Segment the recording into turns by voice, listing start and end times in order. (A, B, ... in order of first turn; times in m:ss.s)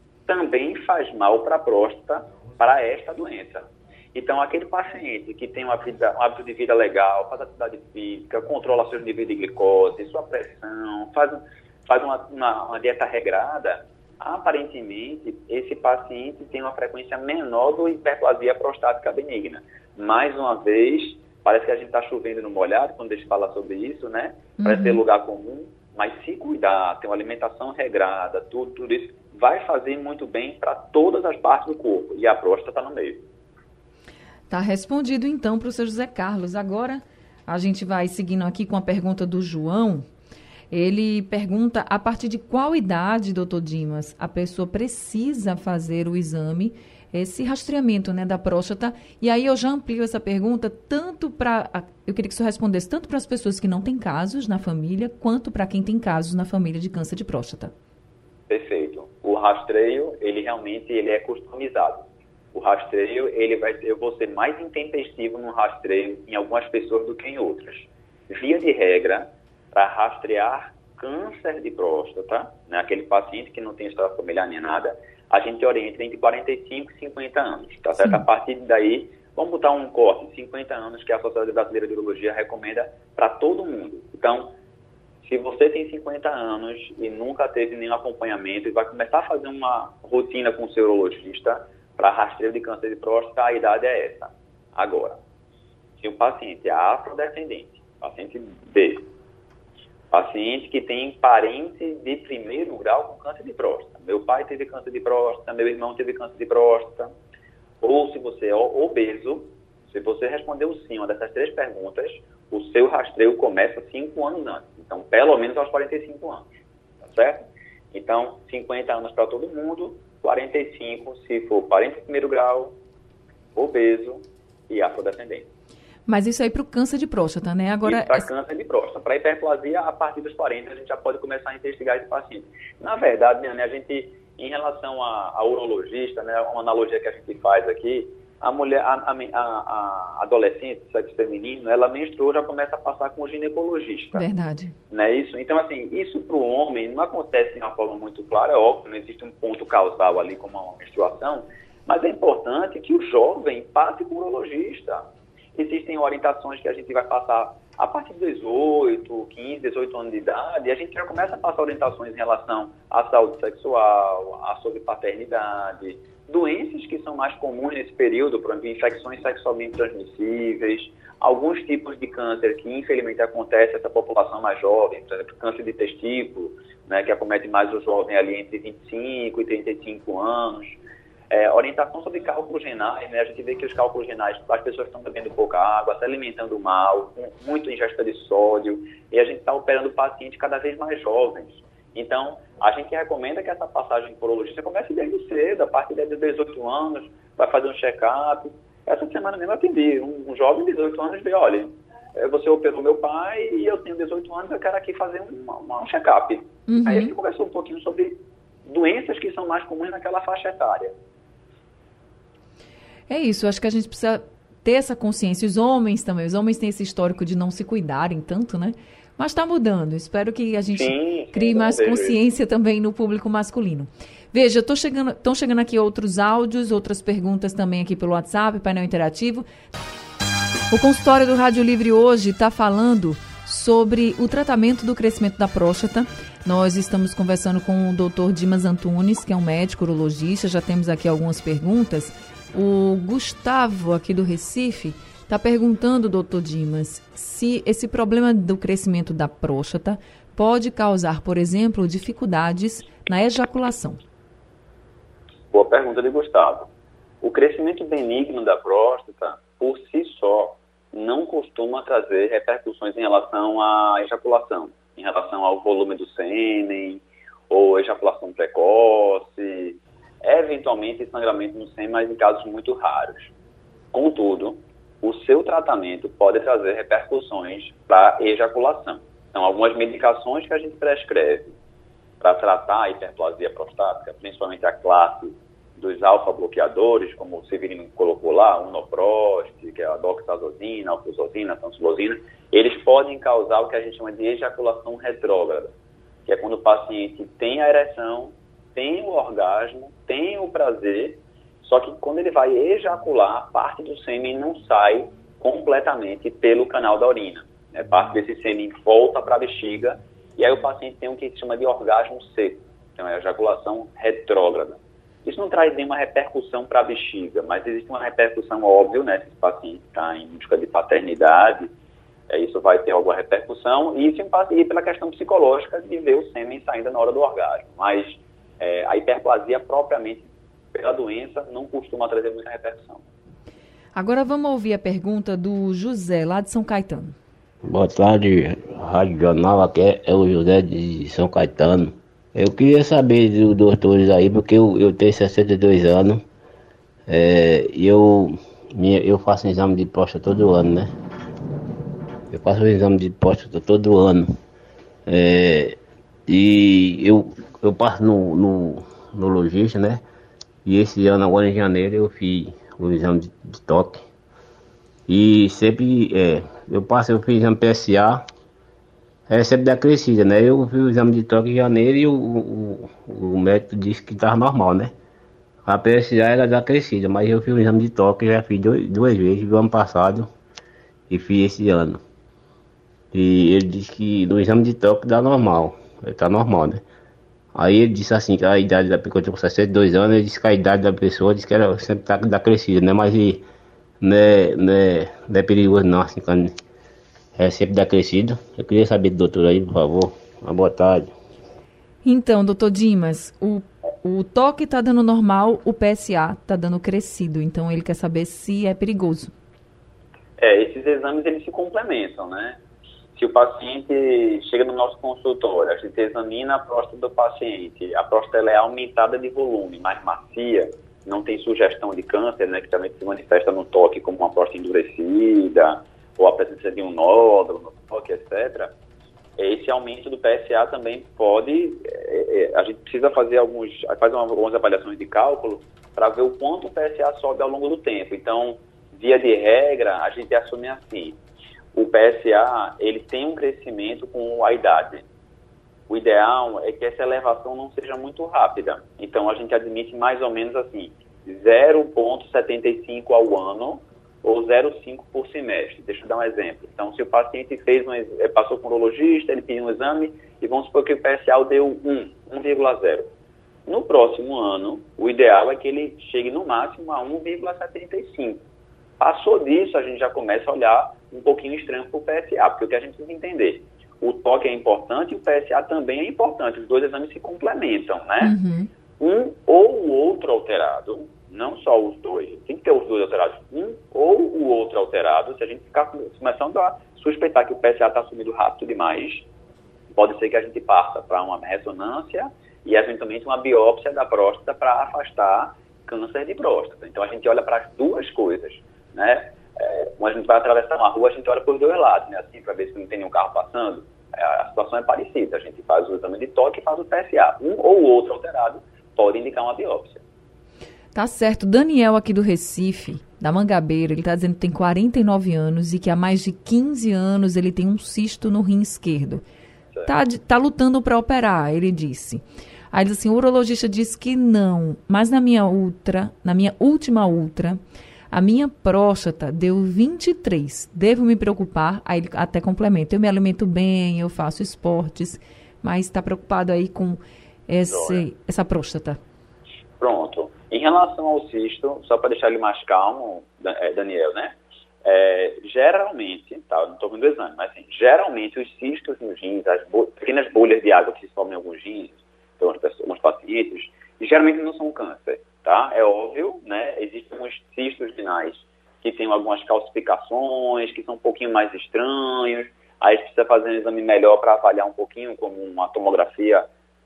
0:00.3-0:33.2 A
0:24.6-0:25.0 B
0:34.5-0:40.1 B
0:40.7-0:57.7 B
0:58.5-1:24.5 A
1:18.0-1:18.2 B
1:25.2-1:35.2 A
1:36.0-1:39.1 A
1:40.1-1:47.1 A
1:47.8-1:56.5 A
1:57.1-2:02.8 A
2:03.6-2:05.5 A
2:06.1-2:08.3 B
2:07.8-2:24.3 A
2:24.1-2:24.8 B
2:24.9-3:00.8 A
3:01.3-3:30.9 A
3:26.7-3:27.1 B
3:33.1-3:49.5 B
3:40.7-3:42.2 A
3:50.7-4:14.0 B
4:15.5-4:16.7 A
4:17.2-4:33.3 A
4:33.9-4:41.6 A
4:42.2-4:55.7 A
4:56.3-5:21.7 A
5:22.3-5:33.0 A
5:34.0-5:37.2 B
5:37.6-5:46.2 C
5:47.1-5:50.9 C
5:52.3-5:54.4 C
5:55.1-6:00.0 C
6:00.6-6:04.1 C
6:05.1-6:08.2 C
6:09.3-6:14.9 C
6:15.7-6:20.3 C
6:21.1-6:22.0 C
6:23.1-6:26.8 C
6:27.6-6:33.4 C
6:34.0-6:36.5 C
6:37.4-6:41.1 C
6:42.0-6:49.3 B
6:50.4-6:52.6 A
6:53.2-7:08.7 A
7:09.4-7:21.2 A
7:21.7-7:25.0 A
7:25.9-7:43.1 A
7:43.7-7:48.4 A
7:49.0-7:58.4 A
7:58.2-7:58.7 B
7:59.0-8:09.3 A
8:09.9-8:30.0 A
8:31.0-8:39.2 B
8:39.8-8:47.6 B
8:48.1-8:59.0 B
8:57.7-8:58.1 A
8:59.8-9:26.5 A